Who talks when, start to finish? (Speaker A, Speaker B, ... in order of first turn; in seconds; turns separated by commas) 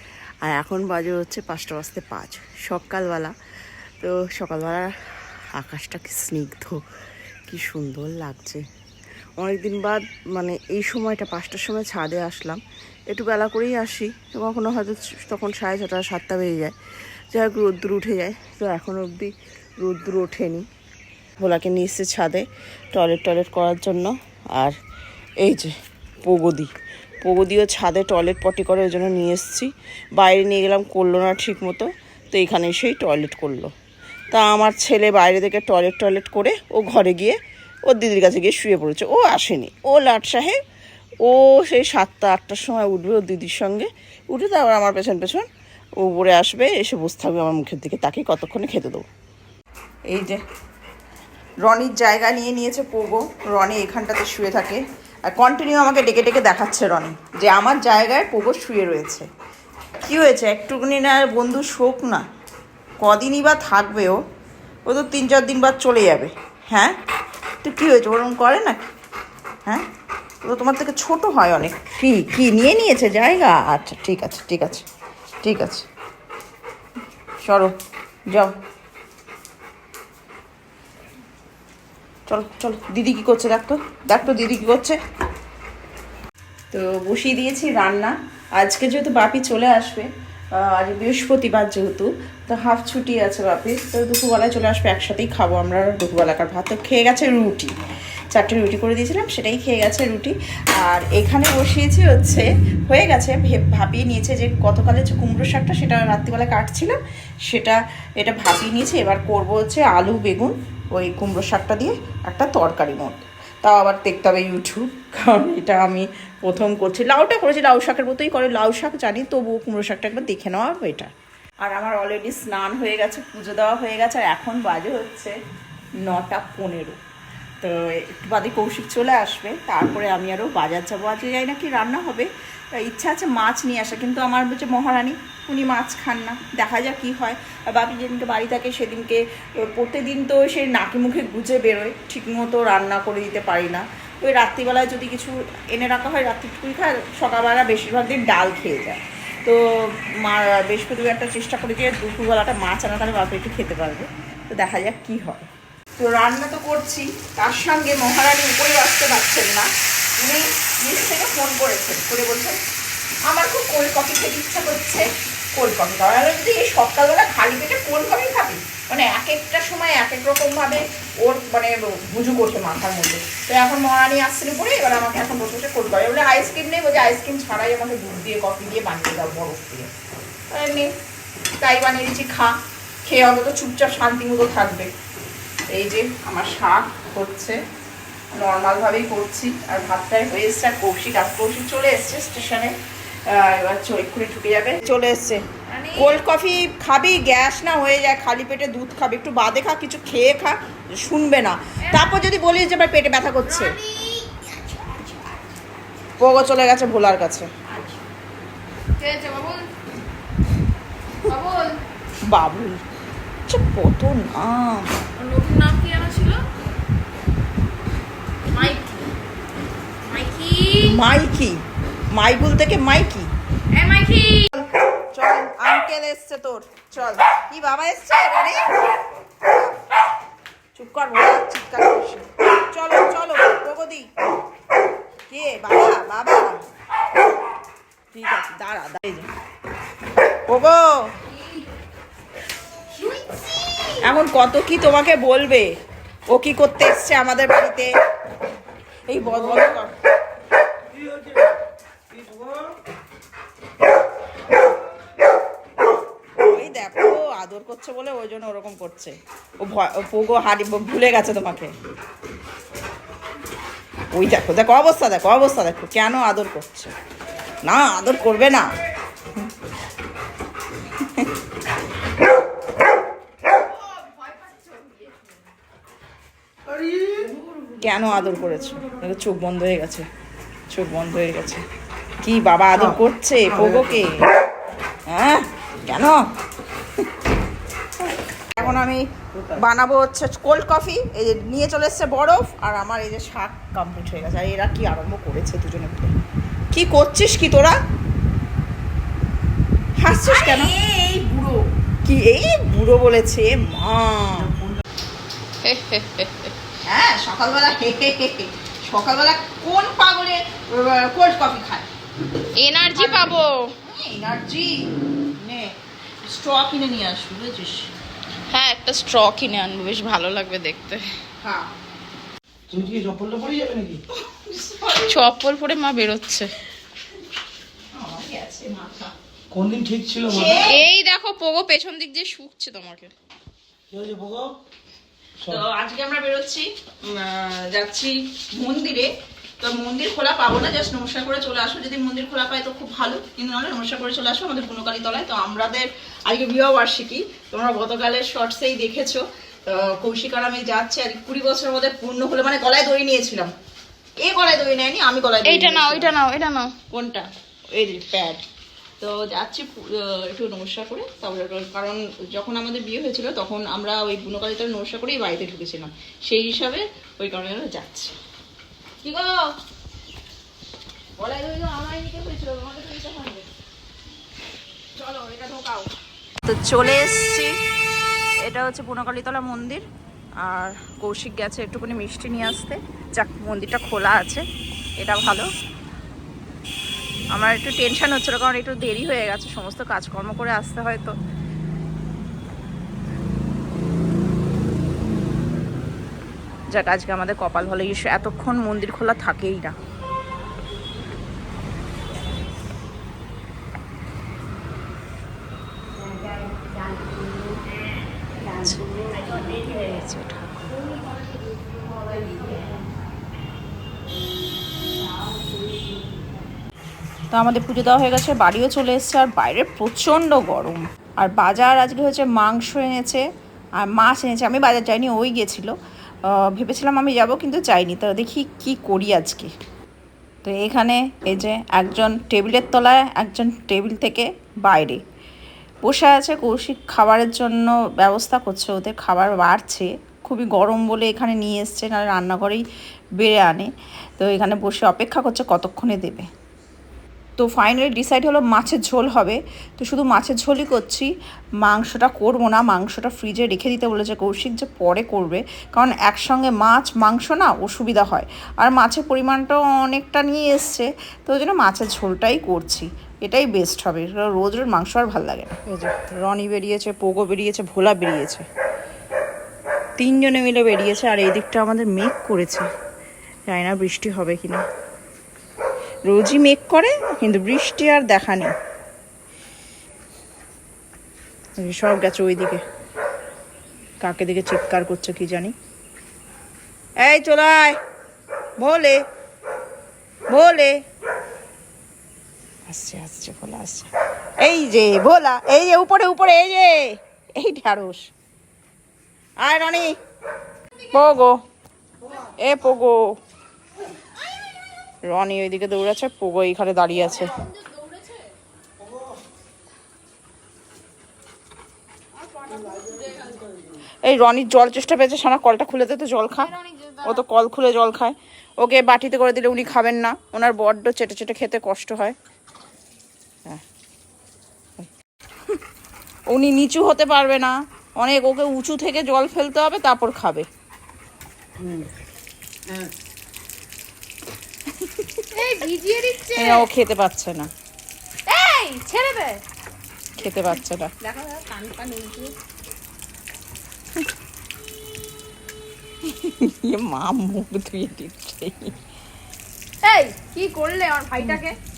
Speaker A: 0.5-3.3, Speaker A: 4.0-4.9, Speaker A: 5.5-6.8, Speaker A: 7.5-8.6, Speaker A: 9.4-12.6, Speaker A: 13.1-16.7, Speaker A: 17.3-20.6, Speaker A: 21.4-24.8, Speaker A: 25.4-25.7, Speaker A: 26.2-26.7, Speaker A: 27.2-33.7, Speaker A: 34.3-40.6, Speaker A: 41.2-45.5, Speaker A: 46.0-49.0, Speaker A: 50.1-50.4, Speaker A: 51.6-59.2, Speaker A: 60.0-62.2, Speaker A: 63.0-64.2, Speaker A: 64.8-67.0, Speaker A: 67.6-68.9, Speaker A: 70.4-74.8, Speaker A: 75.4-75.8, Speaker A: 77.4-77.7, Speaker A: 82.3-85.0, Speaker A: 86.7-97.7, Speaker A: 98.3-121.1, Speaker A: 121.6-125.3, Speaker A: 126.0-127.0, Speaker A: 127.6-149.6, Speaker A: 150.2-162.6, Speaker A: 163.2-179.9, Speaker A: 180.5-180.9, Speaker A: 181.6-184.9, Speaker A: 185.7-187.6, Speaker A: 188.4-192.8, Speaker A: 193.3-195.4, Speaker B: 195.7-196.2, Speaker A: 195.9-203.8, Speaker B: 201.8-202.1, Speaker B: 203.4-205.5, Speaker A: 206.2-207.5, Speaker B: 207.7-208.0, Speaker B: 209.0-209.7, Speaker B: 211.2-211.8, Speaker A: 212.3-212.8, Speaker A: 213.5-214.9, Speaker B: 215.2-216.4, Speaker B: 218.5-219.1, Speaker B: 220.1-221.0, Speaker A: 220.8-221.6, Speaker A: 222.1-223.3, Speaker B: 223.7-224.5, Speaker A: 224.5-228.8, Speaker A: 230.7-234.1, Speaker A: 235.3-236.6, Speaker A: 238.1-239.3, Speaker A: 240.4-241.1, Speaker B: 241.3-241.6, Speaker B: 242.9-244.0, Speaker A: 244.0-245.7, Speaker A: 246.3-247.9, Speaker A: 249.1-249.9, Speaker C: 249.2-249.8, Speaker C: 250.9-251.4, Speaker C: 252.1-252.7, Speaker A: 256.4-261.7, Speaker A: 264.1-266.9, Speaker A: 267.6-268.7, Speaker A: 271.0-271.3, Speaker B: 274.3-275.0, Speaker C: 276.7-277.3, Speaker A: 277.8-280.1, Speaker A: 280.7-281.6, Speaker A: 282.2-284.2, Speaker C: 283.5-284.0, Speaker A: 285.1-286.2, Speaker A: 288.5-296.1, Speaker A: 296.7-297.8, Speaker A: 300.0-304.5, Speaker B: 305.6-306.5, Speaker A: 306.9-311.9, Speaker B: 312.6-313.7, Speaker A: 312.9-314.8, Speaker A: 315.4-315.7, Speaker A: 316.2-317.9, Speaker B: 318.5-321.1, Speaker A: 321.4-321.7, Speaker C: 322.7-324.0, Speaker A: 324.2-325.2, Speaker B: 325.0-326.5, Speaker A: 327.9-329.1, Speaker C: 329.5-330.7, Speaker A: 330.3-330.9, Speaker B: 330.6-333.1, Speaker C: 333.9-334.5, Speaker A: 335.5-353.5, Speaker A: 354.2-356.1, Speaker B: 355.4-356.7, Speaker A: 356.9-358.4, Speaker A: 359.0-368.1, Speaker A: 369.0-369.5, Speaker A: 371.2-373.4, Speaker A: 375.0-375.9, Speaker A: 376.4-377.6, Speaker A: 378.4-379.9, Speaker A: 380.4-384.4, Speaker A: 385.0-385.5, Speaker A: 387.3-391.1, Speaker A: 396.7-399.8, Speaker A: 408.4-410.8, Speaker B: 411.9-412.7, Speaker A: 417.3-423.2, Speaker A: 423.8-429.5, Speaker A: 430.4-435.0, Speaker A: 435.8-442.6, Speaker A: 443.2-446.3, Speaker A: 447.4-451.1, Speaker A: 451.6-468.4, Speaker A: 470.0-472.7, Speaker A: 473.5-474.6, Speaker A: 476.1-478.5, Speaker A: 481.6-482.6, Speaker A: 484.0-485.5, Speaker A: 487.0-487.8, Speaker A: 488.6-489.0, Speaker A: 490.3-490.8, Speaker A: 492.7-498.1, Speaker A: 499.4-499.9, Speaker A: 500.9-501.4, Speaker A: 502.4-503.1, Speaker A: 505.1-507.3, Speaker B: 507.4-508.3, Speaker B: 512.2-513.5, Speaker A: 514.0-522.1, Speaker B: 516.4-517.2, Speaker A: 526.3-530.5, Speaker A: 534.8-535.3, Speaker B: 535.3-536.6, Speaker A: 536.3-537.5, Speaker B: 538.3-539.4, Speaker A: 540.2-541.0, Speaker B: 541.0-542.3, Speaker A: 546.0-548.7, Speaker B: 549.8-551.5